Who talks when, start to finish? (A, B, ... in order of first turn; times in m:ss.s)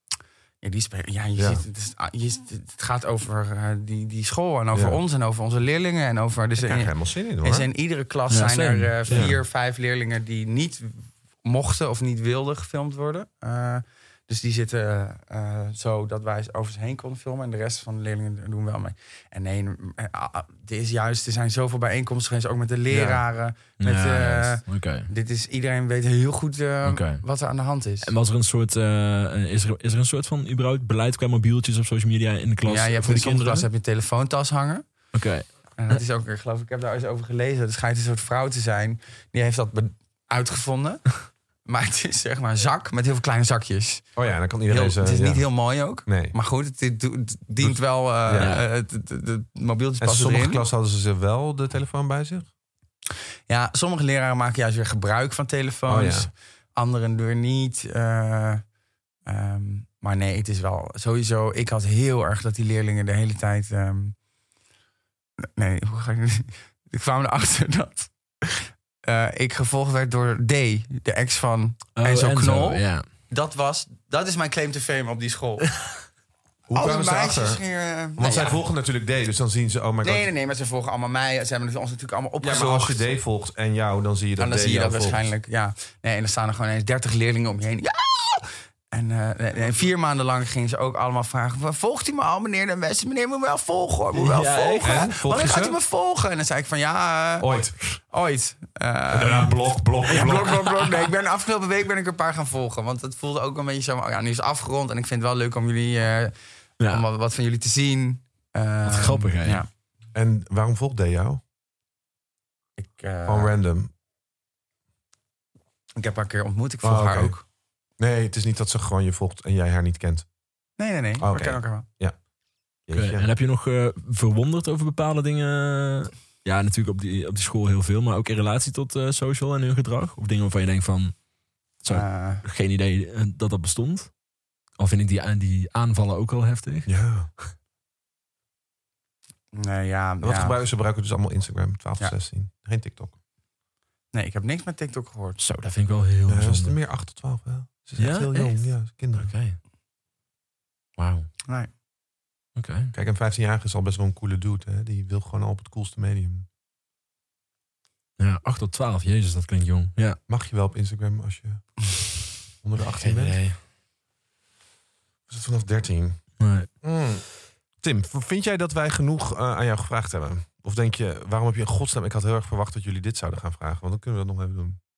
0:00.6-0:28.1 A
0:01.4-0:01.6 B
0:04.7-0:05.0 B
0:06.6-0:07.7 B
0:08.3-0:09.3 C
0:09.1-0:09.4 B
0:22.9-0:23.2 B
0:23.8-0:25.1 C
0:26.8-0:27.2 C
0:28.0-0:33.7 C
0:32.6-0:34.8 A
0:35.1-0:36.0 C
0:35.8-0:41.1 A
0:41.6-0:44.0 A
0:44.2-0:45.5 B
0:44.7-0:50.6 A
0:46.0-0:46.3 B
0:47.6-0:48.6 B
0:48.4-0:48.6 C
0:50.0-0:52.5 B
0:53.5-0:58.6 A
0:55.9-0:56.3 B
0:59.2-1:04.2 A
1:05.4-1:15.7 A
1:12.0-1:13.0 C
1:16.7-1:17.6 B
1:16.7-1:18.6 A
1:18.2-1:20.3 B
1:20.0-1:23.1 A
1:22.4-1:25.3 B
1:24.4-1:37.5 A
1:34.1-1:35.1 C
1:34.8-1:35.8 B
1:37.4-1:38.0 B
1:38.1-1:46.3 A
1:39.1-1:40.6 B
1:46.9-1:49.7 A
1:48.8-1:49.6 C
1:50.1-1:51.4 B
1:52.8-1:53.5 A
1:53.2-1:53.9 B
1:56.0-1:57.4 A
1:56.8-1:57.4 B
1:58.0-2:00.2 B
2:00.8-2:01.9 A
2:01.2-2:02.2 B
2:02.9-2:03.3 B
2:02.9-2:11.1 C
2:11.8-2:14.1 C
2:11.9-2:12.4 A
2:14.8-2:16.9 C
2:16.9-2:17.3 B
2:19.5-2:20.6 A
2:20.2-2:23.1 B
2:24.1-2:25.4 A
2:25.4-2:26.8 C
2:26.3-2:29.3 B
2:28.0-2:29.6 C
2:31.0-2:31.3 C
2:32.5-2:32.9 C
2:32.9-2:36.5 B
2:38.2-2:40.2 C
2:40.3-2:41.7 B
2:42.6-2:43.4 B
2:42.8-2:43.6 C
2:45.3-2:46.2 B
2:46.4-2:46.7 C
2:46.8-2:47.3 B
2:47.8-2:54.8 B